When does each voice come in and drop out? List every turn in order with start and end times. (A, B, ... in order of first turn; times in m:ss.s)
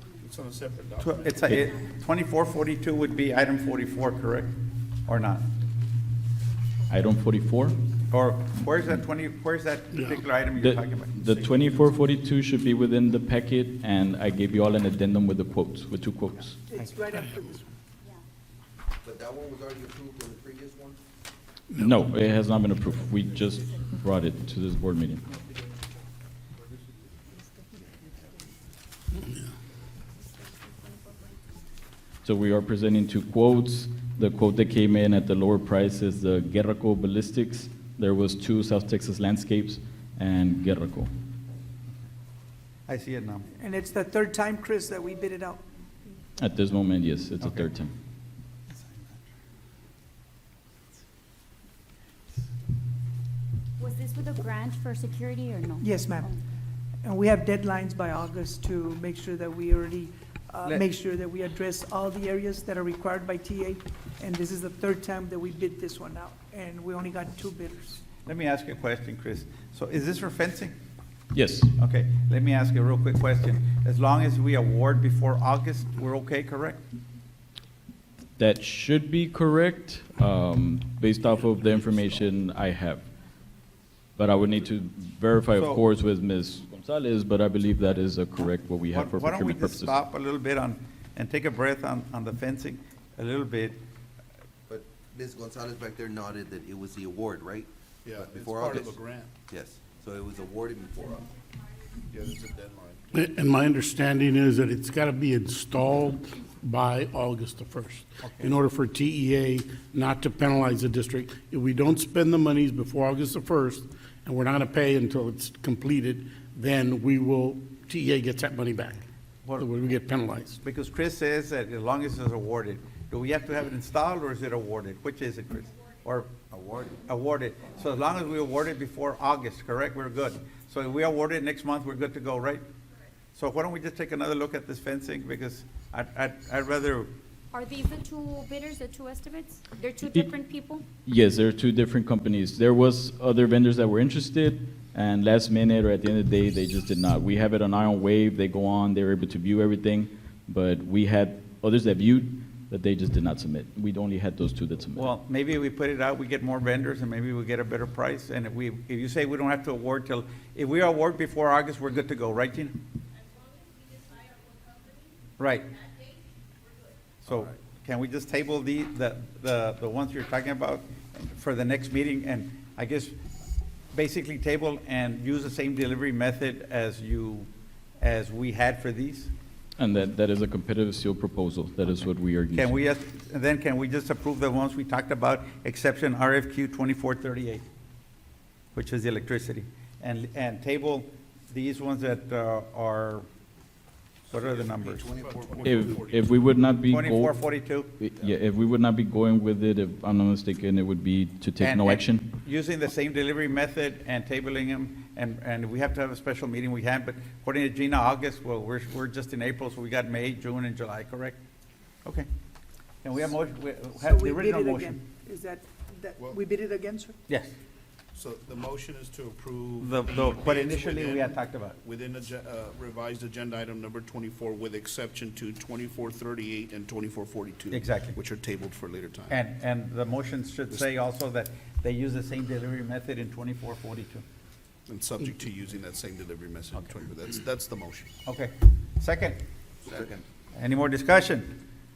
0:00.2-0:01.6 A
0:01.0-0:04.5 B
0:05.1-0:05.4 B
0:06.9-0:07.8 C
0:08.1-0:11.2 B
0:10.6-0:16.6 C
0:16.7-0:17.6 D
0:19.0-0:21.0 E
0:21.8-0:25.2 C
0:32.2-0:41.1 C
0:42.9-0:43.5 B
0:43.6-0:45.6 D
0:46.4-0:47.9 C
0:47.4-0:47.7 B
0:48.7-0:49.2 B
0:53.8-0:56.4 F
0:55.8-0:56.3 D
0:57.0-1:08.0 D
1:08.2-1:10.7 B
1:11.3-1:11.7 C
1:11.7-1:16.8 B
1:18.4-1:23.1 C
1:24.2-1:30.0 C
1:25.5-1:25.8 B
1:28.9-1:33.8 B
1:34.7-1:38.9 E
1:38.0-1:39.3 A
1:39.5-1:41.3 E
1:42.1-1:43.2 A
1:43.1-1:59.0 G
1:48.2-1:48.5 B
1:59.6-2:00.6 G
2:00.6-2:06.3 B
2:06.5-2:07.0 E
2:07.0-2:12.6 B
2:13.3-2:17.1 B
2:17.5-2:20.8 F
2:21.0-2:35.1 C
2:34.9-2:42.8 B
2:45.4-2:45.8 B
2:47.2-2:53.2 B
2:53.9-2:57.5 B
2:58.0-2:59.3 B
2:59.8-3:02.7 C
3:02.5-3:07.6 B
3:08.7-3:13.2 B
3:14.3-3:15.1 B
3:14.8-3:16.0 E
3:15.0-3:16.4 A
3:15.6-3:22.3 C
3:16.9-3:17.9 B
3:21.6-3:31.4 B
3:33.0-3:34.9 B
3:34.0-3:37.2 D
3:37.3-3:37.5 B
3:38.1-3:49.4 A
3:39.8-3:41.8 B
3:47.7-3:48.2 B
3:49.3-3:54.2 B
3:54.9-3:58.1 A
3:58.2-3:59.4 B
3:59.8-4:00.2 E
4:00.5-4:01.6 B